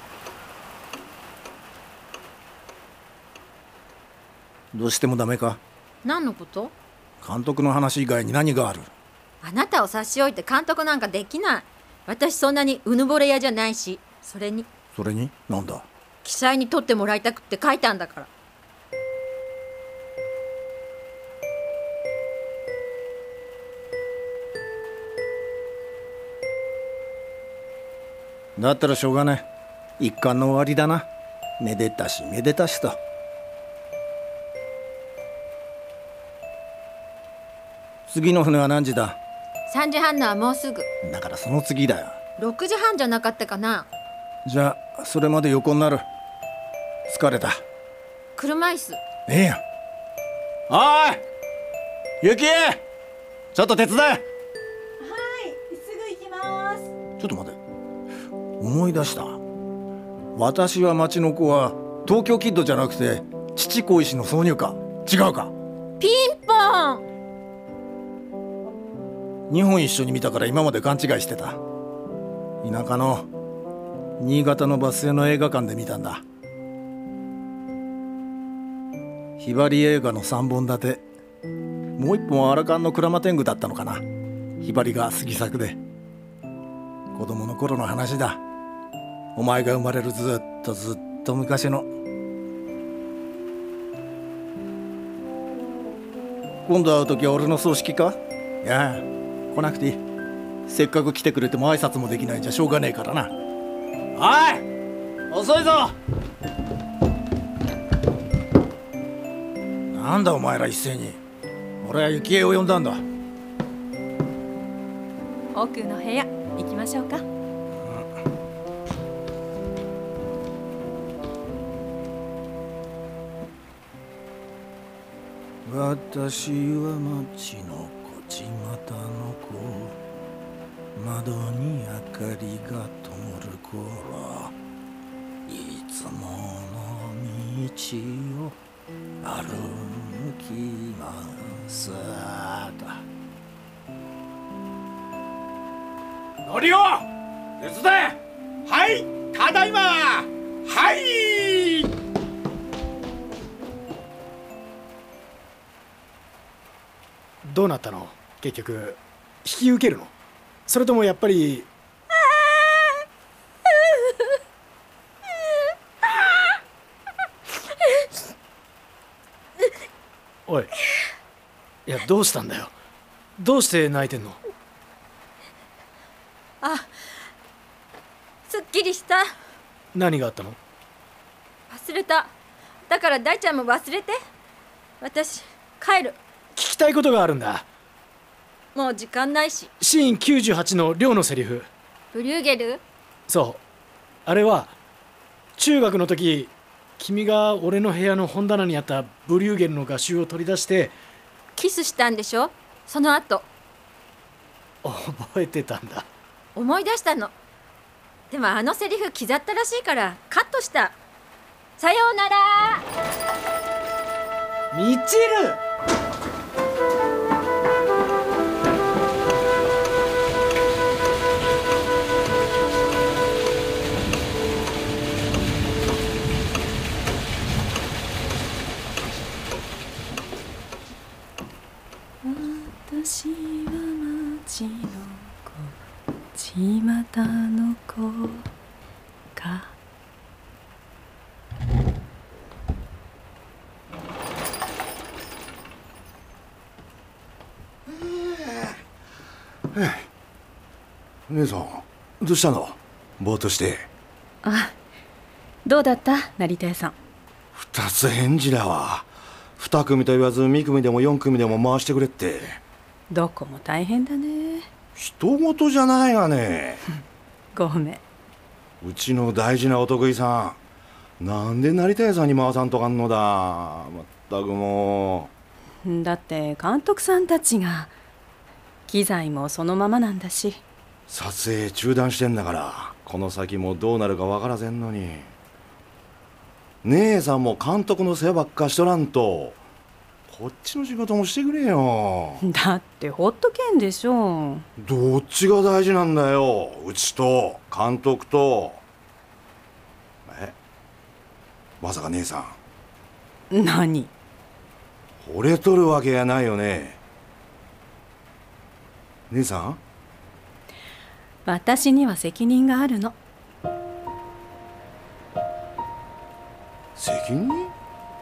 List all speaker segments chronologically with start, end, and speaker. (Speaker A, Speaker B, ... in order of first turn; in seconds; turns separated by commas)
Speaker A: 4.7-5.6, Speaker B: 6.0-6.7, Speaker A: 7.2-8.9, Speaker B: 9.4-14.7, Speaker A: 14.9-15.9, Speaker B: 16.2-18.3, Speaker A: 28.6-29.5, Speaker A: 30.0-31.1, Speaker A: 31.6-33.0, Speaker A: 38.1-39.2, Speaker B: 39.7-40.9, Speaker A: 41.0-42.2, Speaker B: 42.4-43.9, Speaker A: 44.5-46.0, Speaker A: 47.1-47.6, Speaker B: 48.4-49.0, Speaker A: 49.3-49.6, Speaker A: 50.7-51.2, Speaker A: 52.2-52.8, Speaker A: 53.5-54.2, Speaker C: 55.0-56.9, Speaker A: 57.2-57.6, Speaker A: 58.6-59.4, Speaker A: 60.4-65.5, Speaker B: 66.0-67.0, Speaker A: 69.5-71.6, Speaker A: 72.6-73.3, Speaker A: 74.2-76.2, Speaker A: 79.4-81.0, Speaker A: 82.0-84.0, Speaker A: 84.6-85.8, Speaker A: 87.1-88.4, Speaker A: 89.4-91.9, Speaker A: 96.7-100.0, Speaker A: 100.7-103.3, Speaker A: 104.2-104.7, Speaker A: 105.3-106.0, Speaker A: 109.9-111.2, Speaker A: 111.8-113.0, Speaker C: 115.5-117.2, Speaker A: 117.8-118.1, Speaker A: 125.7-129.9, Speaker A: 131.0-134.5, Speaker A: 135.5-138.6, Speaker A: 139.2-143.0, Speaker A: 146.5-147.0, Speaker A: 147.6-148.2, Speaker D: 148.7-151.9, Speaker E: 157.4-160.1, Speaker E: 160.7-161.7, Speaker E: 171.9-172.7, Speaker E: 173.4-174.4, Speaker B: 176.6-176.9, Speaker B: 178.5-179.3, Speaker E: 179.9-180.6, Speaker B: 181.7-182.3, Speaker B: 182.9-184.2, Speaker B: 185.0-186.2, Speaker E: 186.6-187.7, Speaker B: 188.8-189.7, Speaker E: 189.8-191.7, Speaker B: 192.1-192.8, Speaker E: 193.3-193.6, Speaker E: 194.3-194.8, Speaker E: 195.6-200.9, Speaker B: 201.6-203.5, Speaker E: 204.8-206.1, Speaker B: 206.6-207.3, Speaker B: 208.3-211.0, Speaker B: 211.8-212.8, Speaker E: 214.7-215.6, Speaker C: 232.2-235.7, Speaker C: 236.3-238.5, Speaker C: 239.4-239.7, Speaker F: 247.9-248.8, Speaker F: 249.7-250.1, Speaker F: 251.3-253.9, Speaker C: 254.4-254.7, Speaker C: 255.7-256.9, Speaker F: 257.5-262.6, Speaker C: 263.1-264.7, Speaker F: 265.0-266.8, Speaker C: 267.5-268.0, Speaker F: 268.8-270.6, Speaker F: 271.2-275.3, Speaker C: 275.8-277.9, Speaker C: 278.9-280.6, Speaker F: 281.1-285.3, Speaker F: 286.8-289.6, Speaker F: 290.3-292.4, Speaker C: 292.4-294.7, Speaker F: 294.8-298.8, Speaker F: 300.3-300.6, Speaker F: 301.8-302.6, Speaker C: 303.5-304.1, Speaker F: 305.2-307.0, Speaker F: 309.3-309.8, Speaker C: 311.4-313.2, Speaker F: 317.0-317.7